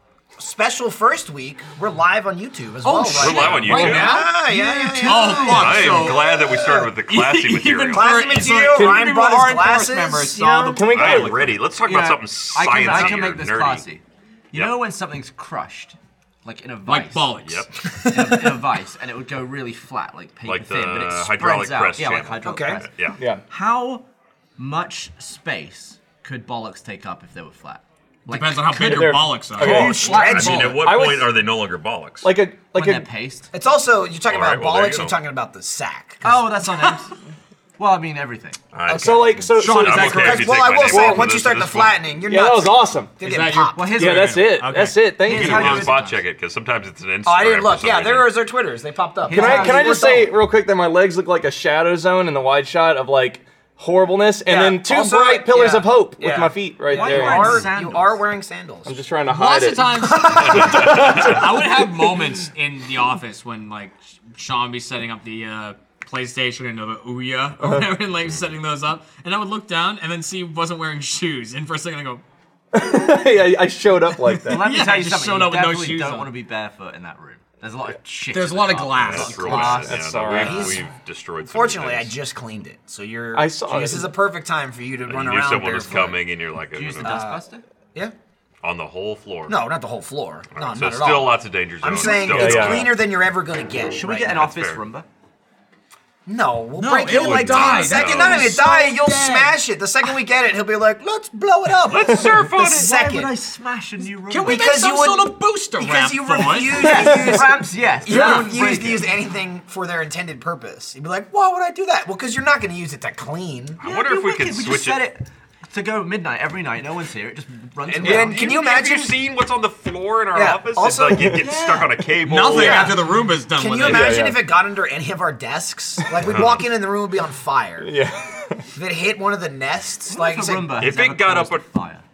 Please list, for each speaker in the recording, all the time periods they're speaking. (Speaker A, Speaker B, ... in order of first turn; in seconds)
Speaker A: 0.4-6.9, 7.9-10.9, 18.1-18.4, 22.4-22.9, 29.6-31.1, 33.5-36.4, 38.9-44.1, 47.2-50.3, 54.5-59.0, 60.1-61.0, 80.2-80.9, 81.4-86.2, 87.0-87.4, 89.5-94.5, 96.3-103.3, 104.4-113.8, 117.9-119.2, 120.3-121.5, 122.5-127.9, 128.7-130.8
Speaker B: 2.8-11.3, 16.9-18.1, 28.3-30.6, 39.5-40.7, 43.2-45.8, 59.3-72.2, 74.2-76.3, 78.3-80.0, 96.8-99.6, 104.3-107.2, 108.1-108.5, 122.2-124.1
Speaker C: 3.2-4.2, 5.3-8.1, 10.9-13.8, 14.5-14.8, 17.4-17.7, 20.4-23.2, 30.0-32.3, 34.3-35.2, 38.7-42.0, 45.3-48.4, 60.4-61.5, 78.9-82.1, 85.1-87.2, 88.6-89.6, 90.5-93.0, 94.3-94.8, 97.1-98.6, 101.9-102.9, 113.8-115.0, 117.9-123.0, 126.2-126.7, 130.8-131.7
Speaker D: 8.7-9.1, 10.7-11.6, 23.2-23.4, 28.7-31.5, 32.2-33.1, 38.9-41.3, 42.3-43.1, 44.0-45.9, 49.3-57.7, 58.9-61.6, 72.7-74.7, 79.9-80.8, 83.3-84.1, 92.1-92.9, 123.8-124.4, 127.8-128.7
Speaker E: 11.8-17.4, 18.0-22.9, 23.5-24.1, 24.6-30.7, 32.7-33.5, 36.2-37.1, 37.8-38.6, 43.8-44.6, 45.2-46.2, 49.2-50.2, 56.9-58.2, 74.5-80.0, 86.7-87.6, 93.9-95.1, 102.2-104.7, 106.7-109.1, 113.8-118.7, 121.4-122.0, 130.1-132.0